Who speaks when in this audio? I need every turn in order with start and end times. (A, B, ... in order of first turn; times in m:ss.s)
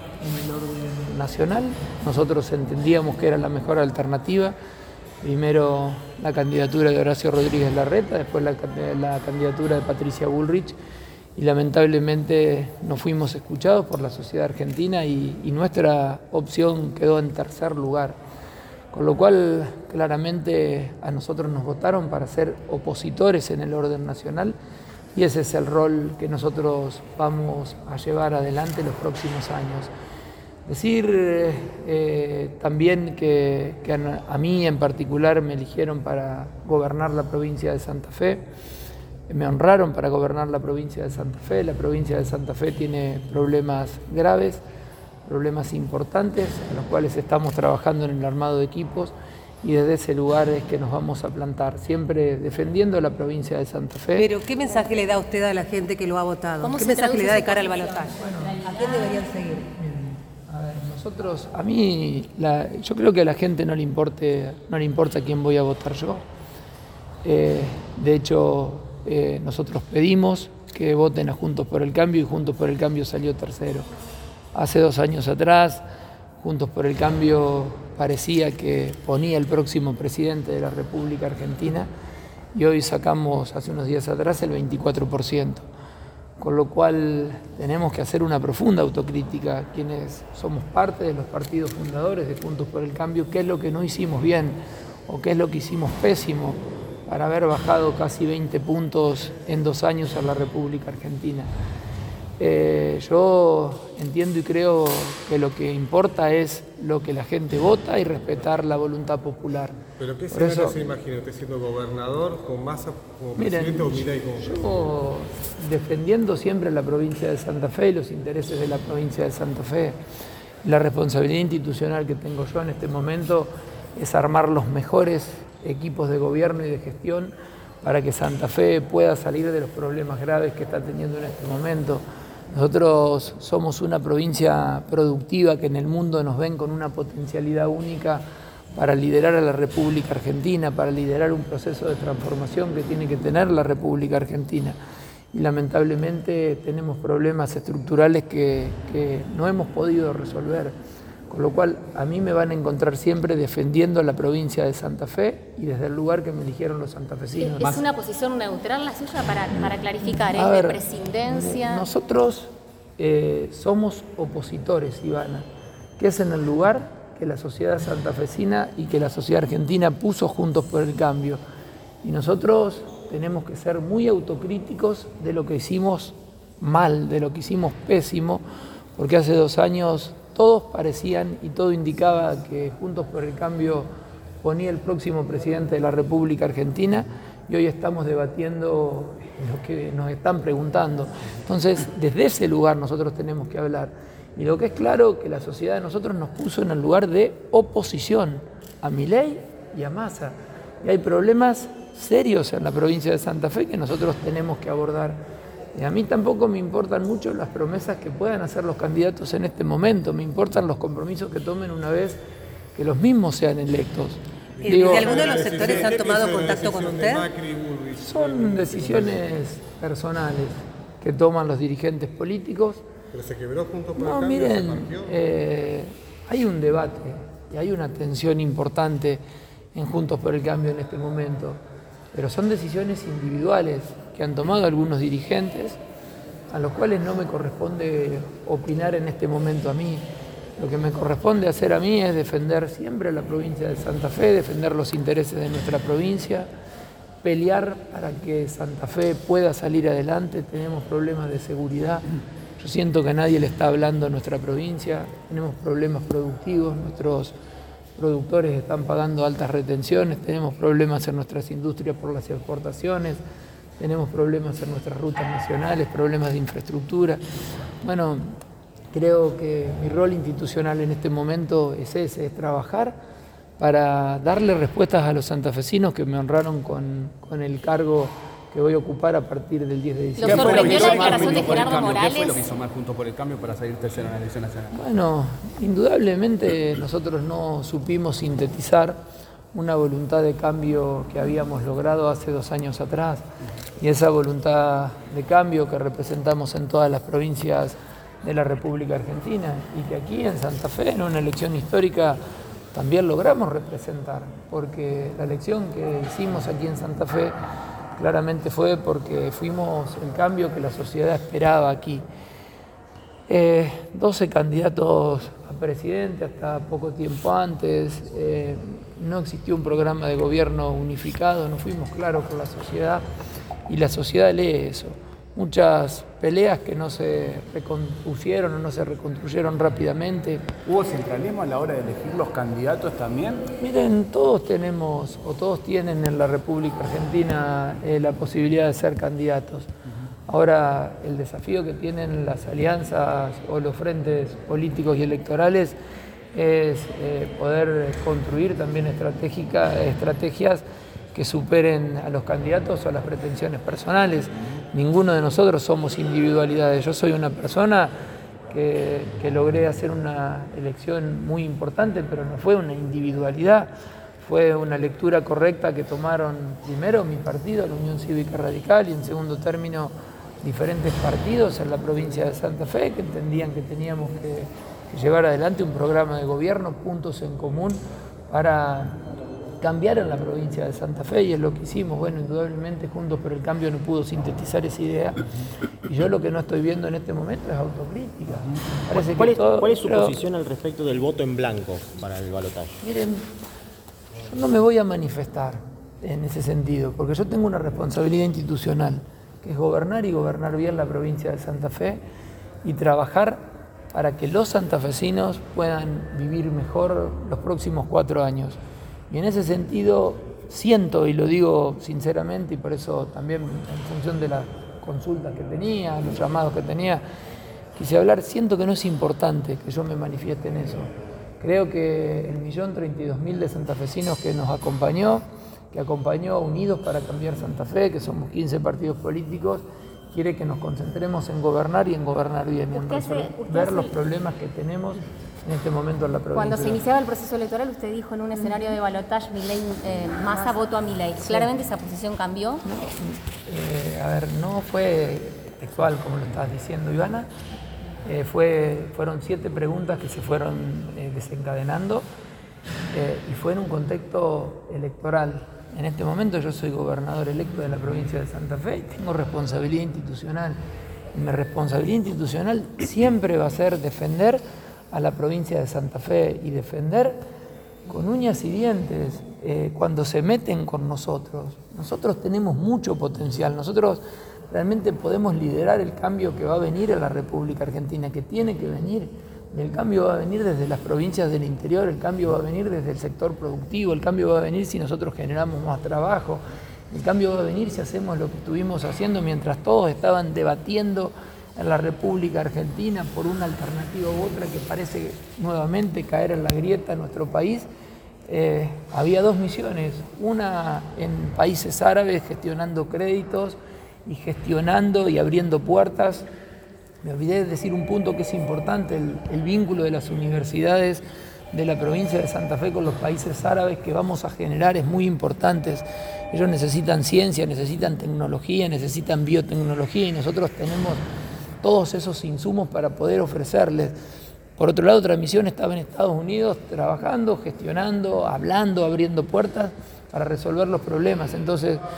0:00.2-0:04.5 A
0:05.2-0:10.8 A
0:11.4-0:18.2 A
0:18.9-0:24.6 A
0:25.1-0:29.9 A
0:30.6-0:38.4 A
0:39.3-0:44.6 A
0:45.2-0:54.3 A
0:54.1-0:59.7 B
0:56.6-0:58.1 C
0:58.1-0:58.6 A
0:59.8-1:06.2 A
1:07.2-1:13.8 A
1:14.5-1:15.8 A
1:16.4-1:21.9 A
1:22.5-1:25.7 A
1:26.4-1:41.5 A
1:42.4-1:50.8 A
1:50.0-1:54.8 D
1:53.3-2:00.0 A
2:00.6-2:18.2 A
2:18.7-2:24.8 A
2:25.3-2:30.7 A
2:31.3-2:37.8 A
2:37.4-2:41.8 C
2:39.5-2:45.4 A
2:46.0-2:51.4 A
2:52.0-2:58.4 A
2:59.0-3:03.9 A
3:04.4-3:25.2 A
3:25.7-3:32.2 A
3:32.7-3:35.1 A
3:34.6-3:37.3 B
3:34.6-3:39.2 D
3:38.0-3:42.8 A
3:43.1-3:45.1 D
3:44.0-3:49.2 A
3:49.7-3:51.6 A
3:52.1-3:55.8 A
3:56.5-4:00.0 A
4:00.6-4:06.5 A
4:07.2-4:12.0 A
4:12.6-4:17.3 A
4:18.0-4:23.2 A
4:23.8-4:27.2 A
4:27.8-4:28.3 A
4:28.9-4:32.9 A
4:33.6-4:41.6 A
4:40.2-4:42.4 C
4:40.4-4:44.7 E
4:44.7-4:49.0 A
4:49.5-4:53.2 A
4:53.8-5:02.2 A
5:02.7-5:07.4 A
5:08.0-5:12.0 A
5:13.3-5:23.0 A
5:23.7-5:30.4 A
5:30.6-5:33.4 E
5:33.6-5:39.7 A
5:40.3-5:45.8 A
5:46.3-5:57.9 A
5:58.5-6:19.0 A
6:19.6-6:25.2 A
6:25.8-6:30.2 A
6:28.9-6:32.8 F
6:32.8-6:33.3 A
6:34.2-6:42.0 A
6:42.6-6:48.6 A
6:49.1-6:57.0 A
6:57.8-7:16.8 A
7:12.7-7:13.9 C
7:16.3-7:22.6 C
7:21.2-7:21.5 A
7:22.6-7:27.3 A
7:28.0-7:32.0 A
7:32.9-7:40.6 A
7:41.1-7:47.2 A
7:47.9-8:06.4 A
8:06.9-8:17.7 A
8:18.3-8:26.2 A
8:27.0-8:41.0 A
8:41.6-8:43.9 A
8:44.6-8:51.8 A